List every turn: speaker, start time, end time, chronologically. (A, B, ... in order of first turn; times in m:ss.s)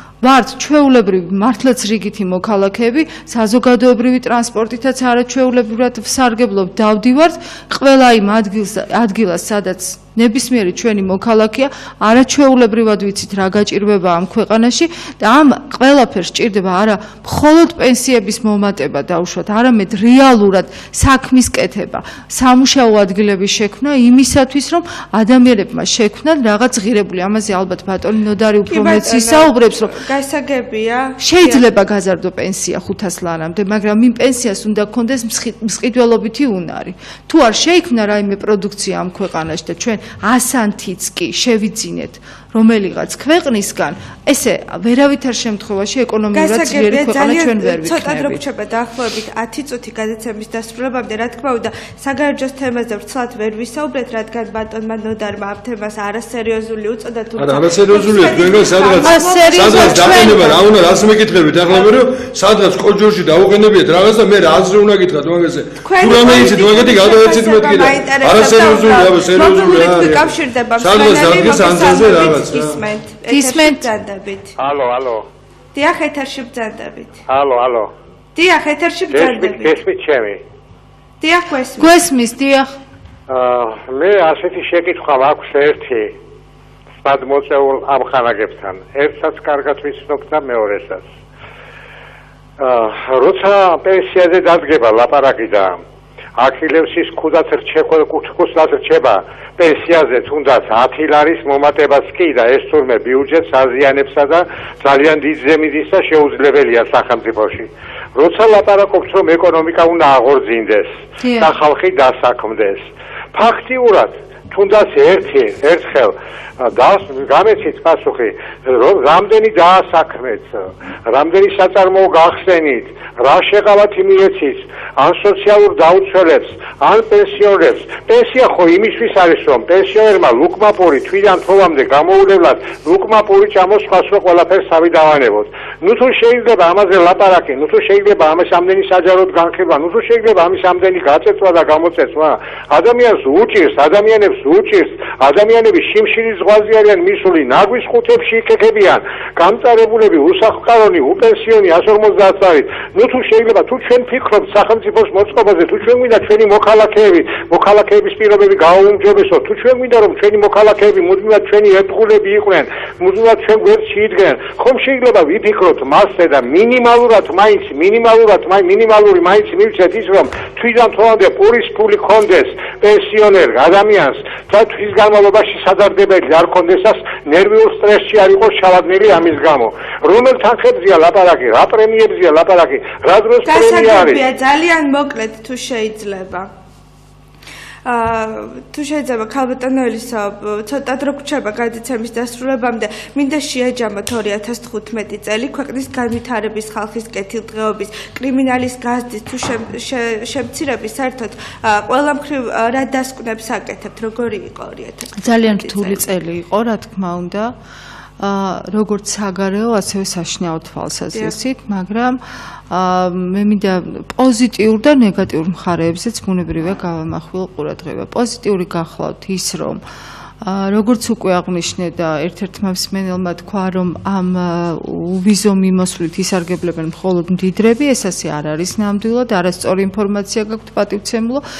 0:00.2-0:29.9 A
0:28.7-0:31.6 B
0:31.2-0:48.4 A
0:46.3-1:01.0 B
0:57.4-1:12.8 C
0:59.0-1:00.5 A
1:05.8-1:14.6 B
1:13.3-1:13.8 A
1:14.6-1:15.2 D
1:15.7-1:17.2 B
1:17.3-1:17.9 D
1:18.4-1:19.8 B
1:19.1-1:20.4 D
1:21.2-1:21.9 B
1:21.8-1:22.7 A
1:23.3-1:26.1 D
1:27.0-1:31.0 D
1:32.6-1:35.8 D
1:36.4-3:04.2 D
1:51.2-1:51.5 A
3:03.4-3:06.5 B
3:07.8-3:26.0 B
3:25.2-3:27.5 A
3:28.2-3:39.8 A
3:40.4-3:51.4 A